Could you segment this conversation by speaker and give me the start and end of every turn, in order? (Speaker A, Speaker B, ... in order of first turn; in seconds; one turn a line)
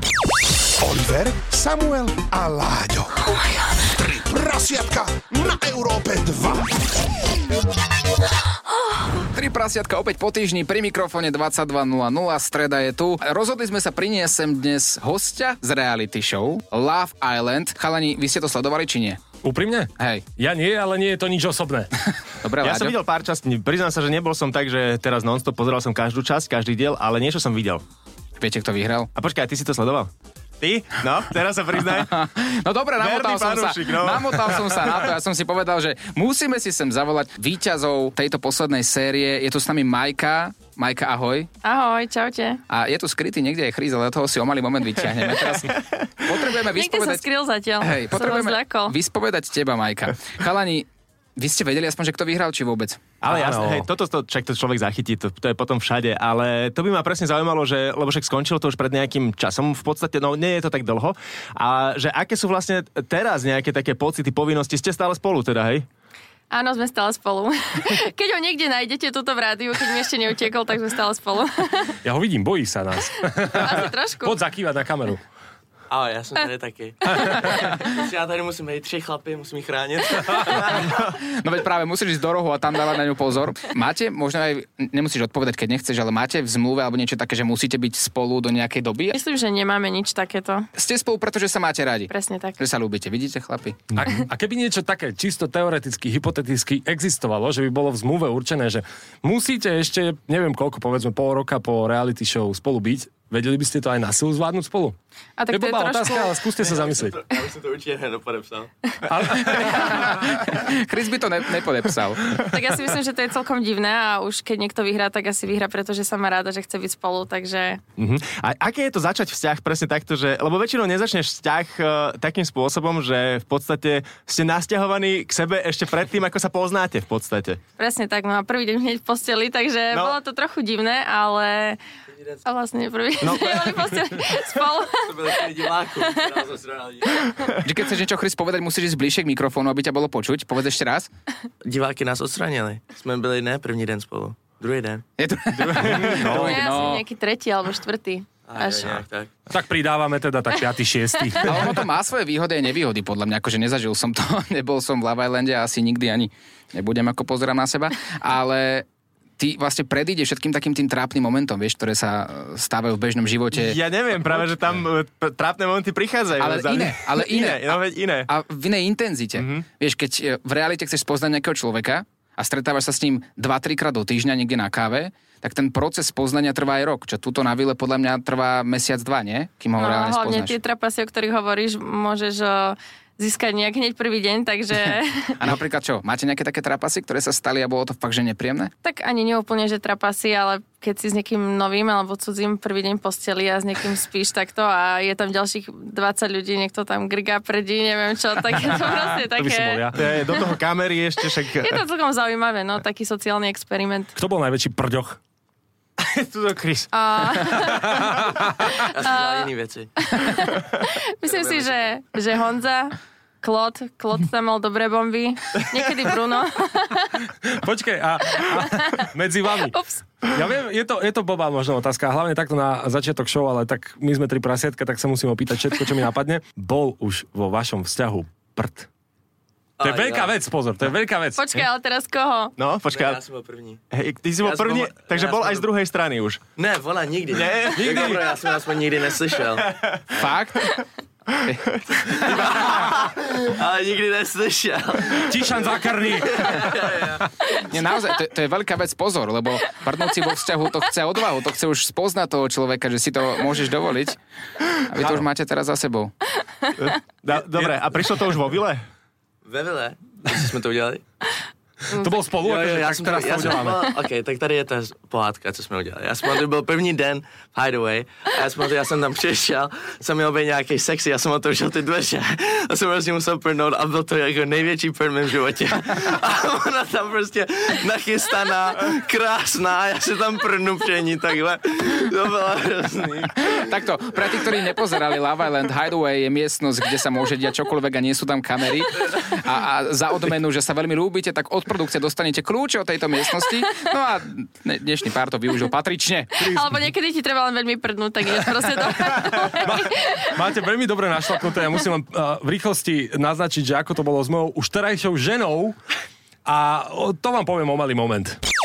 Speaker A: 0.8-6.8
Speaker B: 9.3-19.3
Speaker C: 19.4-21.9
Speaker B: 20.0-20.2
Speaker B: 22.4-22.9
Speaker D: 22.6-27.8
Speaker B: 28.4-29.1
Speaker D: 29.1-32.1
Speaker B: 31.9-41.5
Speaker D: 33.0-34.9
Speaker E: 41.6-42.6
Speaker B: 42.7-47.2
Speaker E: 46.7-48.9
Speaker B: 47.8-53.1
Speaker D: 53.2-65.8
Speaker C: 53.3-53.9
Speaker E: 66.5-72.0
Speaker C: 72.0-75.2
Speaker E: 73.2-74.4
Speaker F: 75.9-81.0
Speaker C: 77.1-77.6
Speaker B: 81.1-89.2
Speaker E: 89.1-90.7
Speaker B: 90.7-93.8
Speaker E: 92.1-92.6
Speaker C: 93.9-105.0
Speaker E: 105.4-106.4
Speaker C: 105.5-107.2
Speaker F: 106.6-108.7
Speaker C: 109.1-110.2
Speaker B: 109.4-112.4
Speaker E: 112.4-117.8
Speaker D: 118.0-127.6
Speaker E: 127.8-131.8
Speaker D: 129.9-130.2
Speaker E: 132.4-136.2
Speaker D: 133.2-133.9
Speaker F: 135.0-137.3
Speaker B: 137.6-141.1
Speaker F: 141.6-145.0
Speaker B: 145.2-147.0
Speaker D: 145.5-146.6
Speaker E: 146.1-149.0
Speaker F: 148.5-149.3
Speaker C: 149.5-151.8
Speaker B: 151.4-158.9
Speaker B: 159.4-164.5
Speaker D: 163.5-168.3
Speaker B: 166.4-180.6
Speaker D: 169.4-169.6
Speaker E: 179.8-185.4
Speaker B: 185.4-188.7
Speaker E: 188.8-199.9
Speaker C: 198.7-200.0
Speaker D: 199.9-201.8
Speaker E: 201.5-204.1
Speaker C: 204.1-205.2
Speaker D: 206.0-206.9
Speaker E: 206.9-208.1
Speaker C: 207.7-208.8
Speaker E: 208.7-209.5
Speaker F: 208.8-209.9
Speaker E: 210.0-217.2
Speaker F: 211.2-211.9
Speaker C: 217.4-228.9
Speaker E: 218.3-220.0
Speaker F: 229.8-230.3
Speaker C: 229.8-231.4
Speaker E: 231.3-232.5
Speaker D: 232.6-233.2
Speaker F: 232.9-233.8
Speaker D: 233.9-236.4
Speaker F: 234.4-235.7
Speaker F: 236.6-239.8
Speaker D: 237.3-238.1
Speaker C: 237.8-238.2
Speaker B: 240.1-240.7
Speaker F: 242.0-247.3
Speaker C: 245.2-247.1
Speaker B: 247.7-254.2
Speaker B: 254.9-256.1
Speaker D: 256.8-258.8
Speaker F: 259.4-261.0
Speaker C: 261.9-263.9
Speaker F: 262.4-283.5
Speaker B: 283.4-296.5
Speaker E: 296.4-300.4
Speaker C: 299.6-305.7
Speaker C: 306.4-308.4